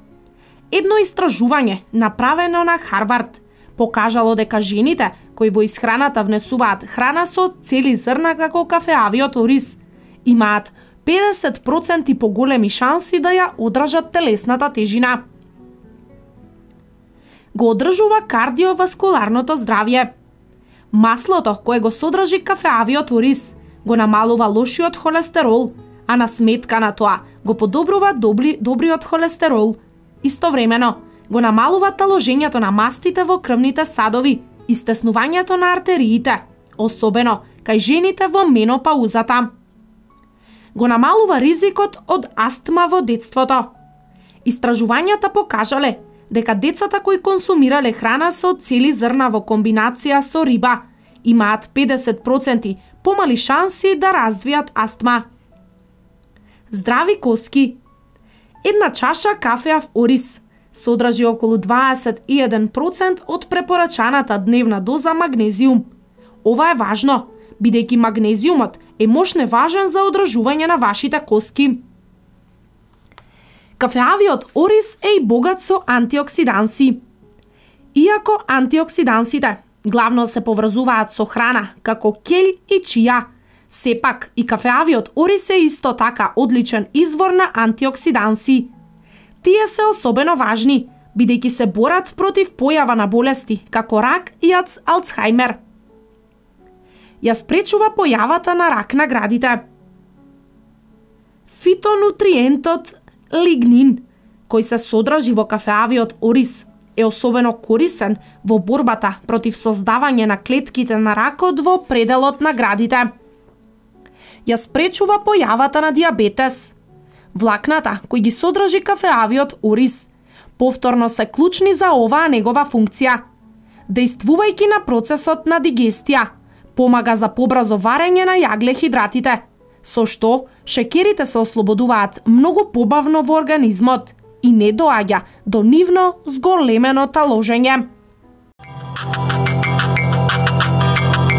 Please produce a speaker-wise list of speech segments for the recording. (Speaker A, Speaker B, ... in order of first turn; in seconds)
Speaker A: 0.7-15.2, 17.5-20.1, 20.9-39.5, 40.7-43.8, 44.4-55.3, 56.7-57.8, 58.6-65.9, 66.4-71.8, 73.8-77.0, 77.9-88.7, 89.4-95.6, 97.2-99.7, 101.5-113.1, 114.5-116.8, 117.3-123.2, 123.9-137.9